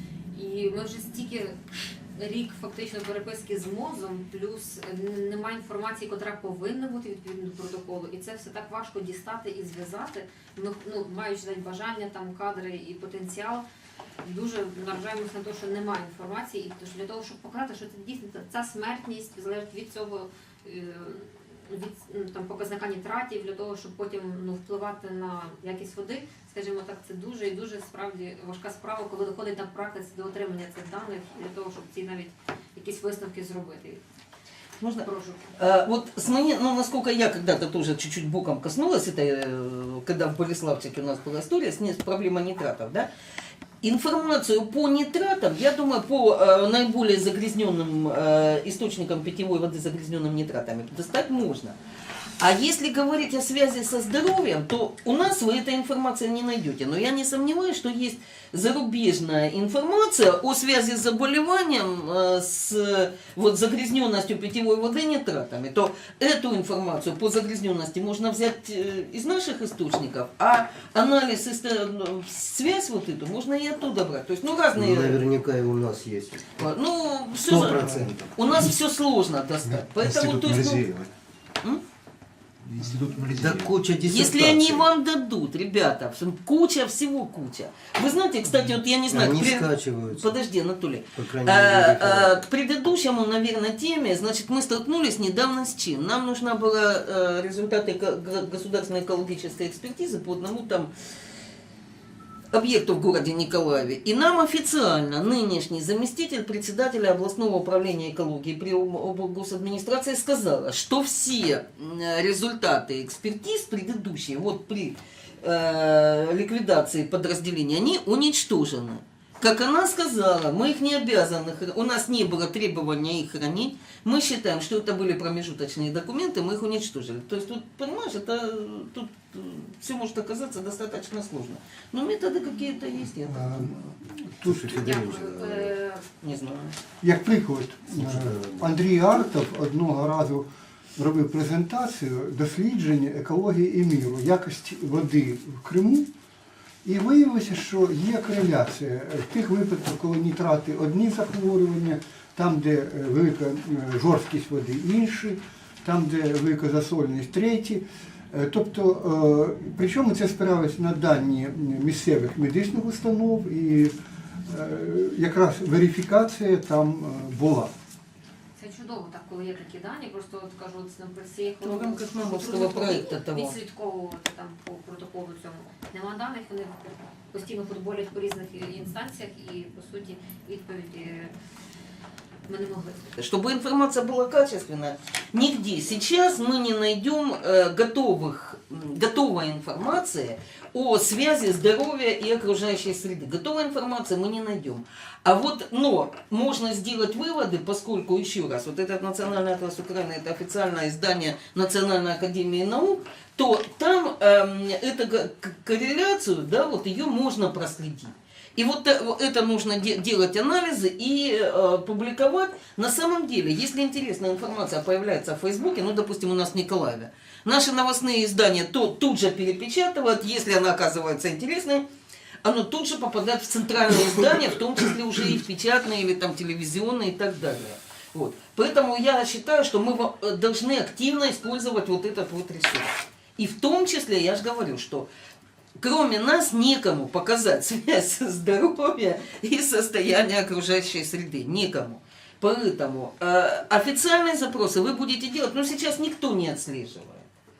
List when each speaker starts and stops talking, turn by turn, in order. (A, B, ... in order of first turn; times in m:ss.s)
0:00.3-0:01.6 A
0:02.2-0:13.6 A
0:14.2-0:34.0 A
0:34.8-0:43.1 B
0:35.0-0:35.5 A
0:43.8-0:51.8 B
0:52.4-1:15.3 B
1:14.7-1:16.5 C
1:16.6-1:20.9 B
1:17.5-1:18.3 C
1:19.8-1:21.1 D
1:22.6-1:23.8 D
1:23.4-1:24.9 C
1:24.0-1:40.9 B
1:29.1-1:30.4 C
1:31.2-1:32.4 C
1:42.5-2:13.9 B
2:13.3-2:14.9 E
2:14.4-2:15.7 C
2:14.8-2:16.1 A
2:16.2-2:16.8 B
2:17.0-2:20.5 E
2:17.9-2:18.8 C
2:21.0-2:26.1 E
2:26.8-2:43.9 E
2:44.5-2:47.7 E
2:48.6-2:56.8 A
2:51.6-2:53.6 B
2:57.3-3:01.3 A
3:02.5-3:03.1 A
3:03.2-3:41.8 B
3:42.4-3:55.1 B
3:55.8-4:07.2 B